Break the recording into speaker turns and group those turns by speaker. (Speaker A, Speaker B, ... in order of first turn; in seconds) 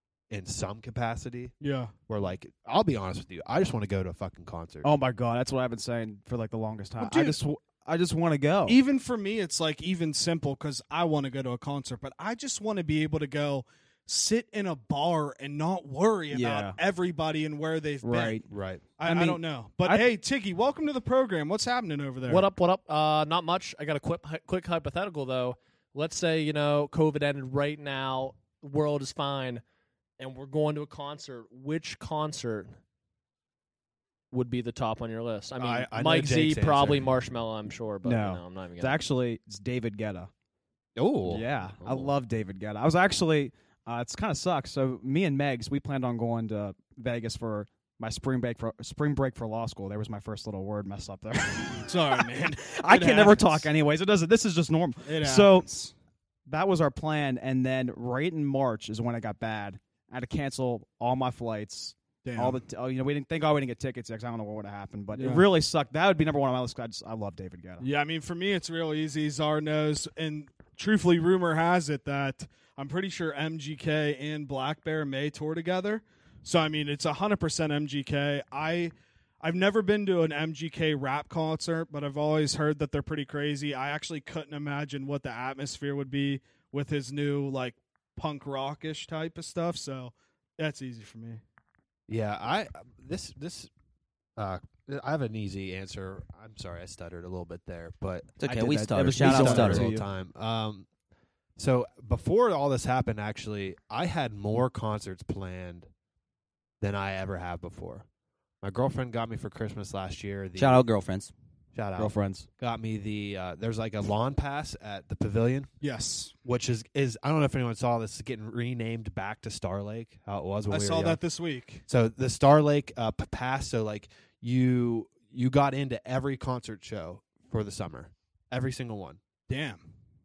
Speaker A: 0.3-1.5, 2.1-4.9, 18.5-18.9, 35.6-37.1, 41.0-42.1, 92.1-93.7, 94.4-98.3, 99.1-100.9, 101.6-105.9, 106.8-108.1, 108.6-110.8, 111.7-115.7, 116.5-121.2, 121.9-129.2
Speaker B: 1.6-1.9, 7.0-7.4, 8.7-18.4, 19.0-22.5, 51.9-53.7, 55.1-55.9, 62.2-62.6, 65.1-65.5, 67.8-91.4, 115.8-116.3, 120.7-121.8, 129.5-129.9
Speaker C: 4.8-8.8, 16.3-16.8, 18.0-18.5, 19.0-20.1, 38.0-40.3, 41.3-55.7, 56.5-67.9, 98.4-100.1, 112.0-112.5
Speaker D: 22.3-29.6, 30.2-32.8, 34.3-39.0
Speaker E: 98.4-99.9, 110.6-111.3